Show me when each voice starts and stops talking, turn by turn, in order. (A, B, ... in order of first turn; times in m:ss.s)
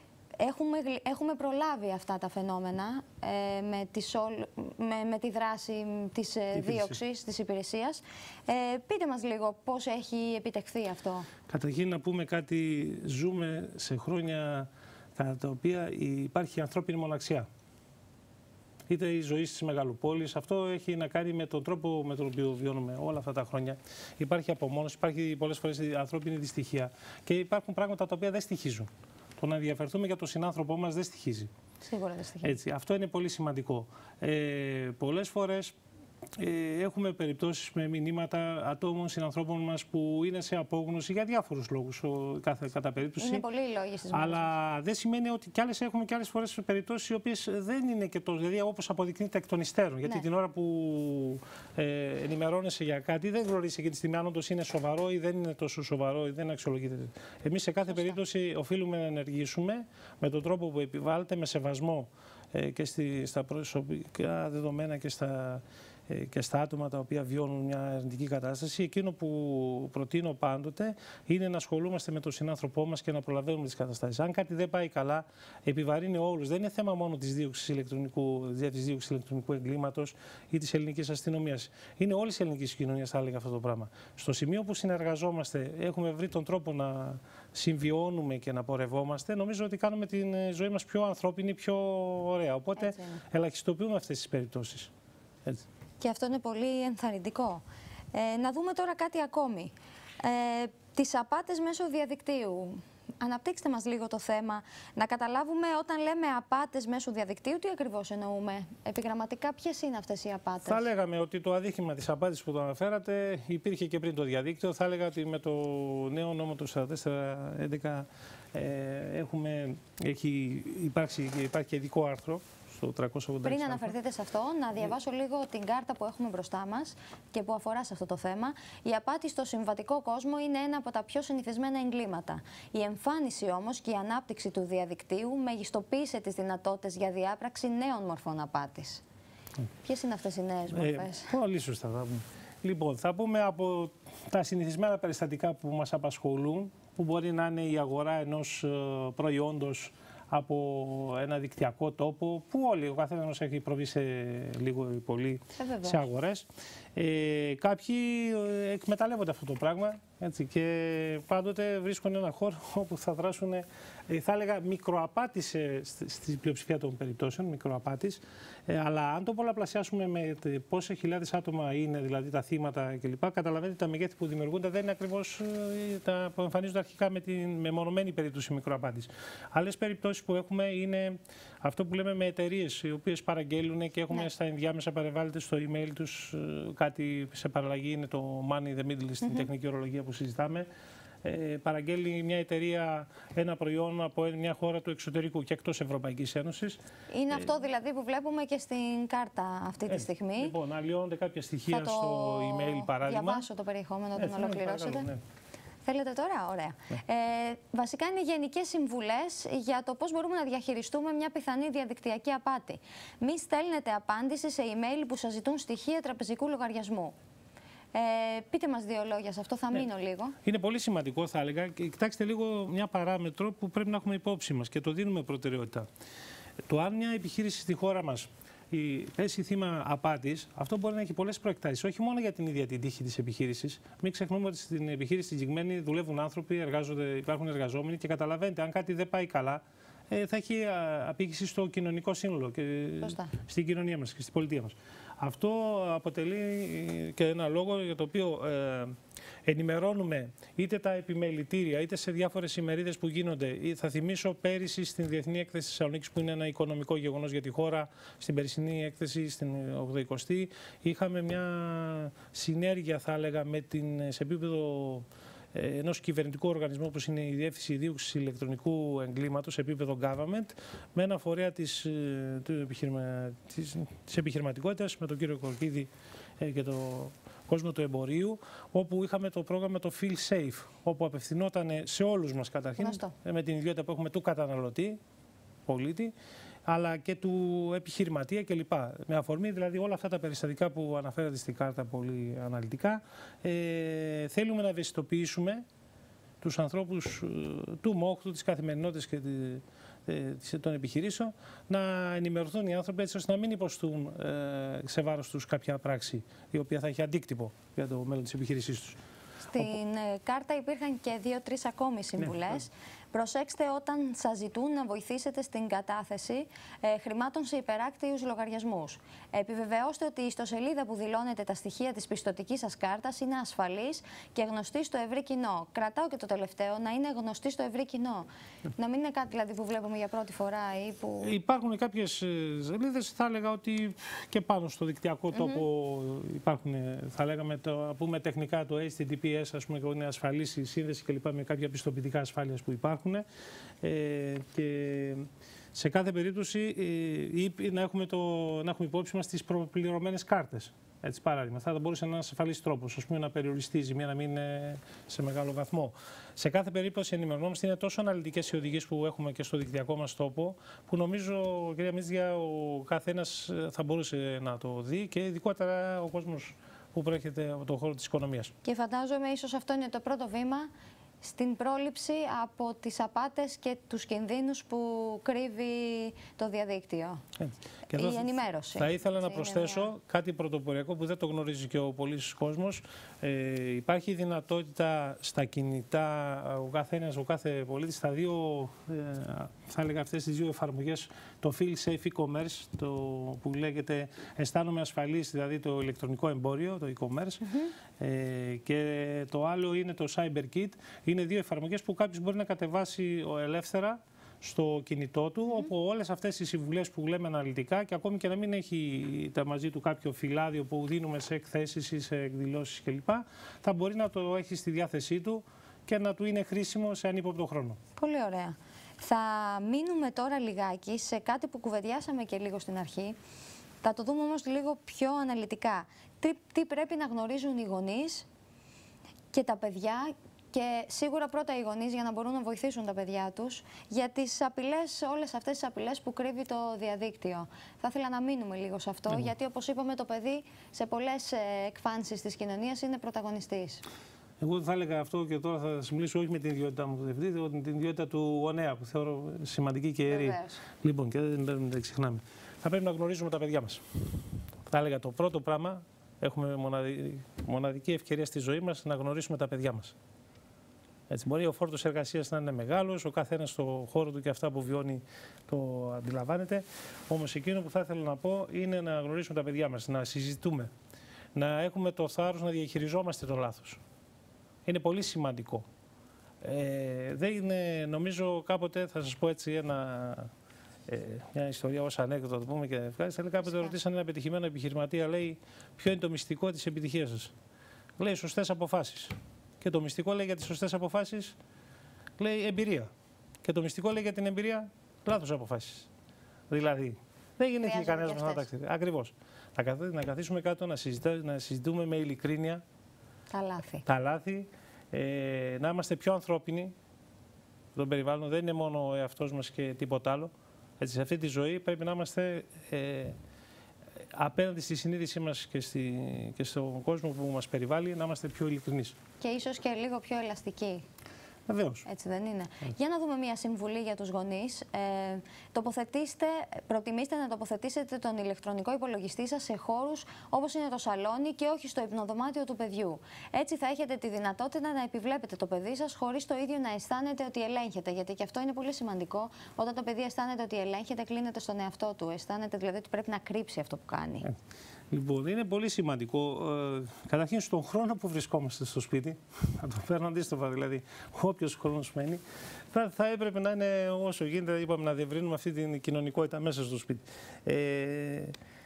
0:00.4-0:11.3 A
0:06.5-0:07.0 B
0:11.5-0:17.5 B
0:18.9-0:31.5 B
0:31.8-0:32.6 A
0:32.4-0:35.8 B
0:36.4-0:43.4 B
0:43.2-0:44.5 A
0:44.1-1:34.9 B
0:57.9-0:58.2 A
1:32.8-1:33.2 A
1:36.0-1:37.6 A
1:38.1-1:50.8 A
1:50.6-2:04.0 B
2:03.4-2:19.0 A
2:19.8-2:21.3 A
2:20.7-3:10.7 B
2:35.6-2:36.1 A
3:09.2-3:09.5 A
3:11.2-3:16.8 B
3:17.1-3:20.5 A
3:19.9-3:23.5 B
3:21.7-3:25.1 A
3:24.2-3:25.2 B
3:25.8-3:37.2 A
3:37.9-3:40.4 A
3:40.4-3:45.9 B
3:46.7-4:45.0 B
4:03.0-4:03.3 A
4:42.8-4:43.1 A
4:45.7-4:46.1 B
4:46.7-4:55.6 B
4:56.4-5:09.0 B
5:09.5-5:31.3 A
5:12.2-5:12.5 B
5:31.2-5:43.2 B
5:35.3-5:35.6 A
5:43.8-6:08.5 B
6:08.6-6:10.7 A
6:11.2-6:17.2 A
6:17.4-6:57.8 B
6:17.9-6:19.9 A
6:37.5-6:37.7 A
6:58.0-7:03.2 A
7:03.8-7:08.3 A
7:09.3-7:23.8 A
7:24.4-7:40.0 B
7:30.1-7:30.6 A
7:41.1-7:50.7 B
7:51.4-7:53.8 B
7:54.6-7:55.6 B
7:56.4-8:00.3 B
8:00.9-8:07.3 B
8:08.0-8:11.4 B
8:12.2-8:12.9 B
8:13.4-8:15.9 B
8:16.5-8:22.6 B
8:17.6-8:18.5 A
8:23.3-8:23.8 A
8:23.8-8:26.8 B
8:27.8-8:33.2 B
8:34.0-8:39.0 B
8:39.2-8:40.8 A
8:41.5-8:41.8 B
8:41.8-9:04.3 A
9:04.9-9:18.3 B